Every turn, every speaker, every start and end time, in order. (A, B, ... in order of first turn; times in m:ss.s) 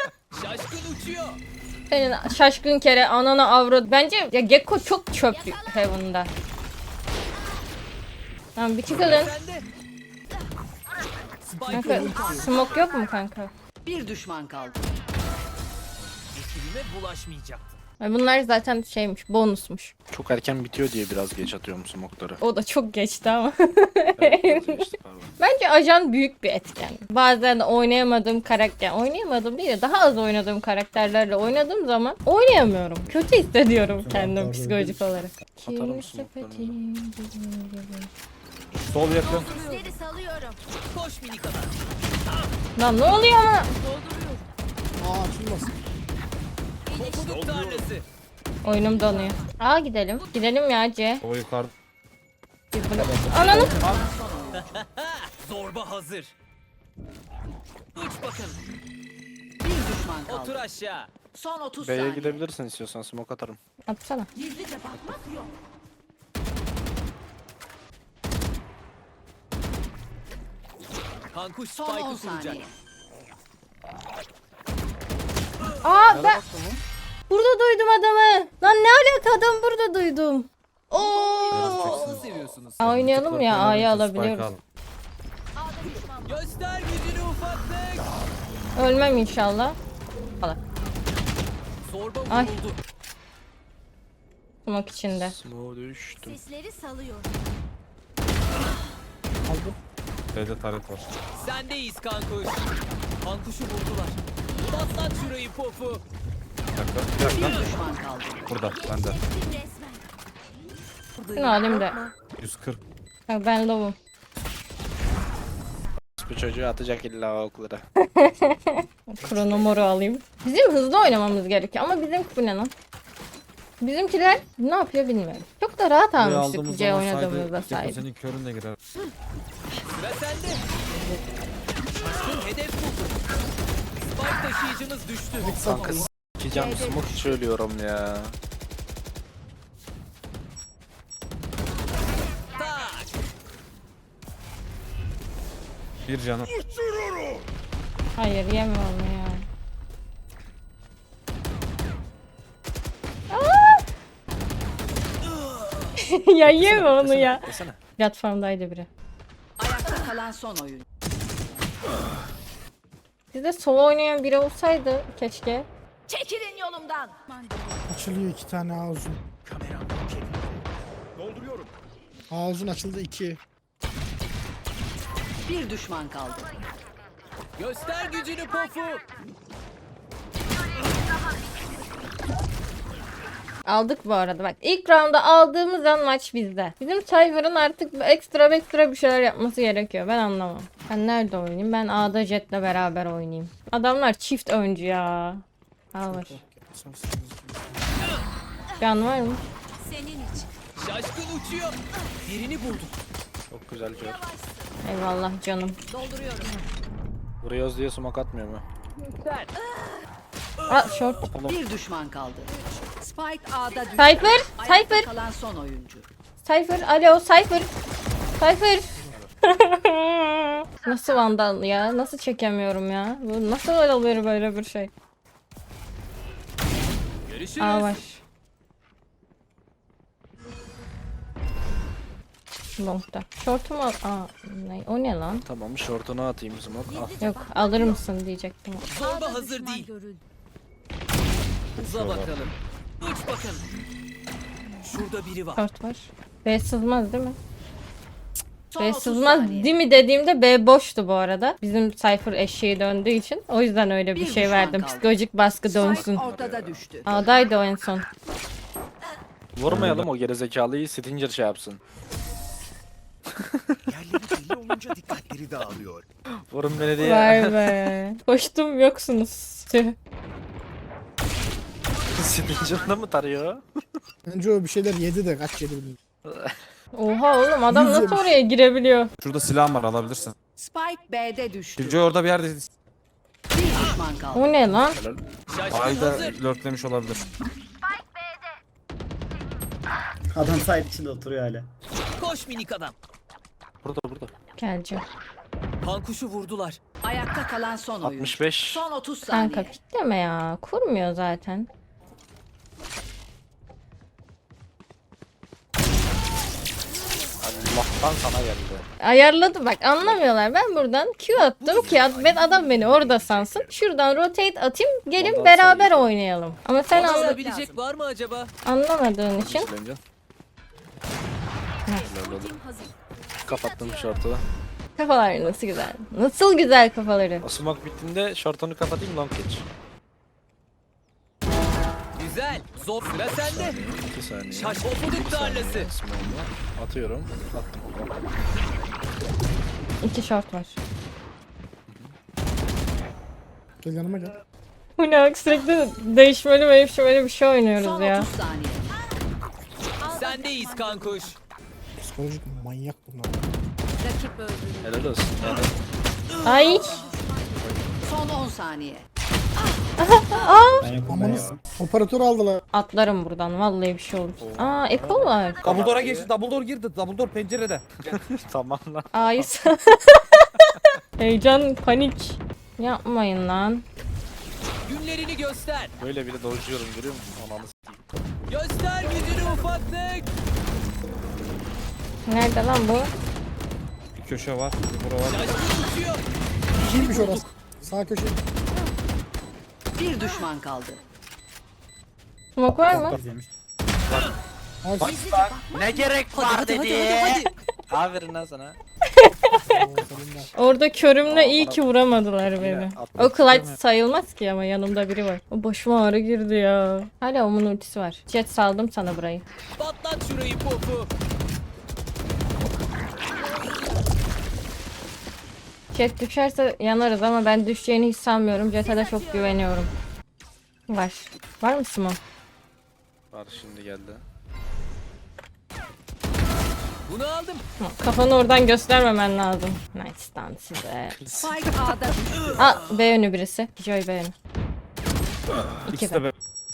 0:00.3-0:01.4 A
0:01.9-0:06.3 B
0:05.3-0:05.8 C
0:08.6-0:09.3 B
0:08.9-0:09.6 A
0:11.5-0:12.2 A
0:11.7-0:12.5 D
0:11.7-0:13.5 B
0:11.8-0:12.3 E
0:13.8-0:14.9 D
0:16.3-0:17.8 A
0:18.0-0:19.9 B
0:20.1-0:22.4 F
0:22.4-0:38.1 B
0:24.2-0:25.3 F
0:34.1-0:35.0 G
0:35.6-0:36.8 F
0:38.8-0:39.5 H
0:39.2-0:40.6 C
0:40.9-0:41.7 A
0:42.8-0:43.7 B
0:43.8-0:44.5 C
0:45.0-0:45.7 E
0:46.9-0:47.4 C
0:46.9-0:48.0 A
0:48.6-0:51.2 B
0:48.7-0:49.5 C
0:51.2-0:51.7 H
0:52.7-0:53.8 B
0:53.0-0:53.6 G
0:53.4-0:54.7 D
0:54.6-0:56.3 A
0:58.0-0:58.6 A
0:59.6-1:00.7 D
1:00.3-1:01.1 A
1:01.3-1:02.4 D
1:01.8-1:03.6 F
1:03.9-1:04.3 B
1:04.8-1:05.2 C
1:11.3-1:12.7 A
1:11.7-1:12.7 D
1:15.8-1:16.4 B
1:16.1-1:16.8 H
1:17.3-1:22.2 B
1:21.5-1:22.8 A
1:21.5-1:22.2 H
1:22.8-1:24.5 B
1:22.8-1:24.6 H
1:25.6-1:26.5 C
1:26.2-1:28.1 A
1:28.8-1:29.8 B
1:31.9-1:32.8 A
1:32.3-1:32.6 B
1:34.7-1:35.4 B
1:35.1-1:36.4 F
1:36.2-1:37.4 C
1:39.5-1:39.8 E
1:40.3-1:41.1 H
1:41.4-1:42.7 A
1:43.2-1:46.0 A
1:44.5-1:45.3 C
1:46.7-1:47.6 H
1:47.2-1:48.4 D
1:48.5-1:49.2 H
1:48.6-1:50.0 C
1:51.2-1:51.7 A
1:51.4-1:52.0 B
1:52.4-1:52.8 H
1:53.3-1:54.0 B
1:56.2-1:57.8 F
1:58.0-2:02.7 B
2:03.8-2:08.0 B
2:06.2-2:08.8 H
2:10.0-2:10.6 A
2:12.0-2:13.2 A
2:14.1-2:15.6 A
2:15.4-2:16.1 E
2:15.6-2:18.4 F
2:16.5-2:17.4 D
2:22.5-2:23.1 A
2:26.1-2:26.5 H
2:28.2-2:29.4 B
2:33.3-2:33.8 B
2:36.0-2:38.9 B
2:36.4-2:37.8 F
2:39.6-2:40.8 D
2:43.3-2:45.7 B
2:46.1-2:47.7 C
2:47.9-2:49.2 E
2:49.4-2:50.6 I
2:51.2-2:51.7 I
2:52.3-2:53.4 E
2:55.4-2:56.4 D
2:57.6-2:59.0 A
3:03.7-3:15.4 B
3:15.9-3:16.4 B
3:16.1-3:17.8 E
3:18.8-3:19.4 B
3:19.8-3:20.5 C
3:20.8-3:22.9 A
3:23.5-3:24.3 F
3:23.9-3:24.7 C
3:24.8-3:25.8 B
3:25.9-3:26.6 C
3:27.4-3:28.6 F
3:29.0-3:29.5 A
3:30.7-3:31.3 B
3:30.7-3:31.1 A
3:31.3-3:31.6 F
3:31.4-3:36.1 D
3:34.0-3:35.1 B
3:36.4-3:37.7 B
3:38.4-3:44.9 B
3:47.3-3:47.9 A
3:47.6-3:48.2 B
3:52.8-3:55.4 B
3:55.5-3:57.2 F
3:56.9-3:58.0 C
3:57.2-3:58.9 B
3:58.9-3:59.9 A
3:59.0-4:00.2 C
4:01.8-4:02.3 H
4:01.8-4:03.6 A
4:04.8-4:05.6 A
4:05.6-4:07.4 B
4:08.7-4:09.8 D
4:08.8-4:16.2 B
4:14.1-4:15.2 D
4:15.7-4:17.1 D
4:15.8-4:17.2 F
4:17.1-4:18.1 B
4:19.6-4:21.8 F
4:19.7-4:20.0 H
4:23.5-4:23.8 F
4:23.9-4:26.0 I
4:26.5-4:27.8 F
4:27.0-4:30.0 B
4:32.1-4:34.0 F
4:34.3-4:36.0 E
4:36.3-4:36.6 F
4:36.9-4:39.1 B
4:37.7-4:38.3 E
4:39.2-4:40.4 H
4:40.6-4:42.0 D
4:41.8-4:42.7 H
4:43.5-4:44.6 D
4:44.3-4:45.0 B
4:44.9-4:45.2 F
4:45.5-4:46.4 A
4:45.7-4:47.2 H
4:50.4-4:51.7 G
4:52.2-4:53.0 A
4:53.8-4:54.3 F
4:54.6-4:55.0 B
4:55.8-4:56.8 A
4:57.0-4:59.8 D
4:58.0-4:58.9 F
4:59.3-5:01.7 B
5:07.4-5:08.8 F
5:09.0-5:17.4 B
5:11.7-5:12.0 A
5:12.0-5:13.6 I
5:15.2-5:16.1 F
5:16.9-5:18.5 A
5:17.0-5:17.8 D
5:18.6-5:19.7 B
5:19.4-5:20.0 F
5:21.9-5:24.3 C
5:22.0-5:22.6 F
5:23.4-5:24.4 F
5:25.0-5:27.5 B
5:27.4-5:29.6 F
5:32.2-5:33.8 A
5:33.3-5:38.1 F
5:34.5-5:35.9 A
5:40.0-5:40.8 B
5:43.8-5:44.3 E
5:45.0-5:48.3 B
5:47.8-5:48.8 D
5:50.0-5:51.4 C
5:50.1-5:51.4 A
5:52.0-5:53.5 E
5:54.3-5:55.0 C
5:54.8-5:55.7 F
5:56.4-5:57.0 B
5:56.5-5:57.7 C
5:57.6-5:57.9 F
5:58.0-5:59.0 D
6:00.0-6:00.9 B
6:00.9-6:01.6 G
6:01.0-6:02.6 E
6:01.2-6:01.6 F
6:02.7-6:05.6 B
6:04.4-6:06.3 F
6:05.6-6:07.9 H
6:08.0-6:09.5 F
6:09.1-6:13.8 B
6:14.9-6:15.9 A
6:16.0-6:18.0 F
6:18.5-6:20.3 A
6:22.3-6:23.1 B
6:24.2-6:25.6 H
6:25.2-6:26.2 A
6:26.8-6:28.4 E
6:26.8-6:27.5 A
6:30.0-6:31.0 D
6:32.6-6:33.2 B
6:32.9-6:33.5 G
6:34.8-6:35.2 E
6:35.0-6:35.6 H
6:35.0-6:36.0 C
6:35.7-6:38.8 F
6:36.3-6:37.5 A
6:39.1-6:39.7 B
6:39.5-6:40.5 E
6:40.6-6:49.4 B
6:41.3-6:41.8 F
6:42.5-6:43.6 F
6:43.5-6:43.8 H
6:49.8-6:51.1 A
6:53.4-6:54.1 C
6:55.9-6:59.9 B
6:58.8-6:59.6 C
7:00.9-7:02.2 B
7:03.3-7:04.2 F
7:07.1-7:07.6 A
7:07.8-7:11.4 B
7:11.2-7:11.5 F
7:11.4-7:12.7 D
7:12.6-7:14.4 B
7:15.9-7:16.3 B
7:15.9-7:16.3 H